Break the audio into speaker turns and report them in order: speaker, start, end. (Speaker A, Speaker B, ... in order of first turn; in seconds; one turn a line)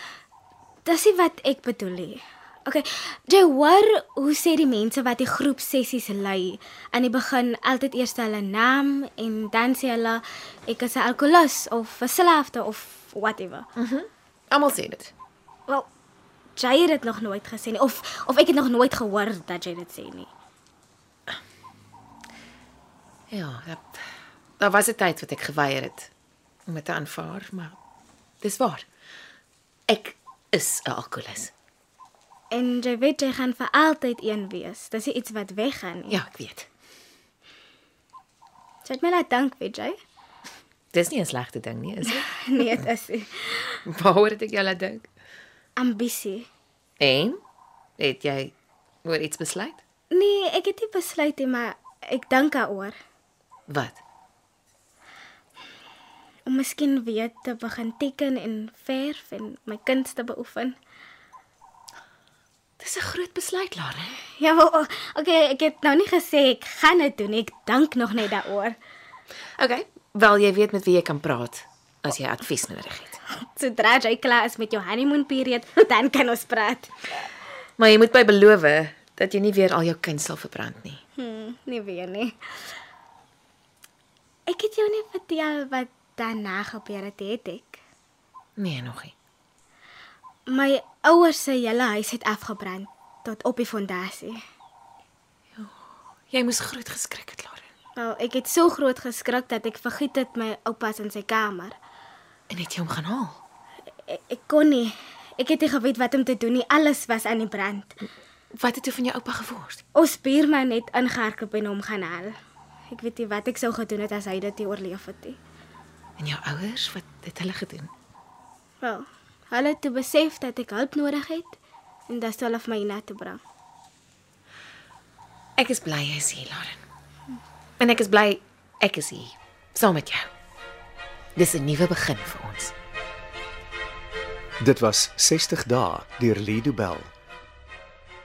Speaker A: 0.8-13.7
Speaker B: 13.8-15.1
Speaker A: 16.6-20.3
Speaker B: 23.3-24.0
Speaker B: 24.6-26.1
Speaker B: 26.7-27.8
Speaker B: 28.4-28.8
Speaker B: 29.9-31.5
Speaker A: 32.5-36.2
Speaker B: 36.1-36.7
Speaker A: 38.8-40.0
Speaker B: 40.9-42.7
Speaker A: 42.1-43.8
Speaker B: 43.9-45.1
Speaker A: 45.8-46.5
Speaker B: 47.0-47.4
Speaker B: 48.0-48.5
Speaker B: 49.0-49.8
Speaker A: 50.1-53.0
Speaker B: 53.7-54.0
Speaker A: 56.5-60.8
Speaker B: 62.8-64.2
Speaker A: 64.3-68.8
Speaker B: 69.6-73.2
Speaker A: 73.3-76.9
Speaker B: 77.8-81.0
Speaker A: 81.2-82.6
Speaker A: 84.5-87.8
Speaker B: 88.6-89.1
Speaker A: 90.5-94.4
Speaker B: 96.3-97.7
Speaker A: 98.0-101.8
Speaker B: 102.5-103.4
Speaker A: 104.0-107.9
Speaker B: 108.5-109.8
Speaker A: 109.9-112.3
Speaker A: 112.9-115.4
Speaker B: 116.2-117.9
Speaker A: 118.8-123.4
Speaker B: 125.6-126.8
Speaker B: 127.8-130.3
Speaker B: 131.3-132.7
Speaker C: 134.6-137.1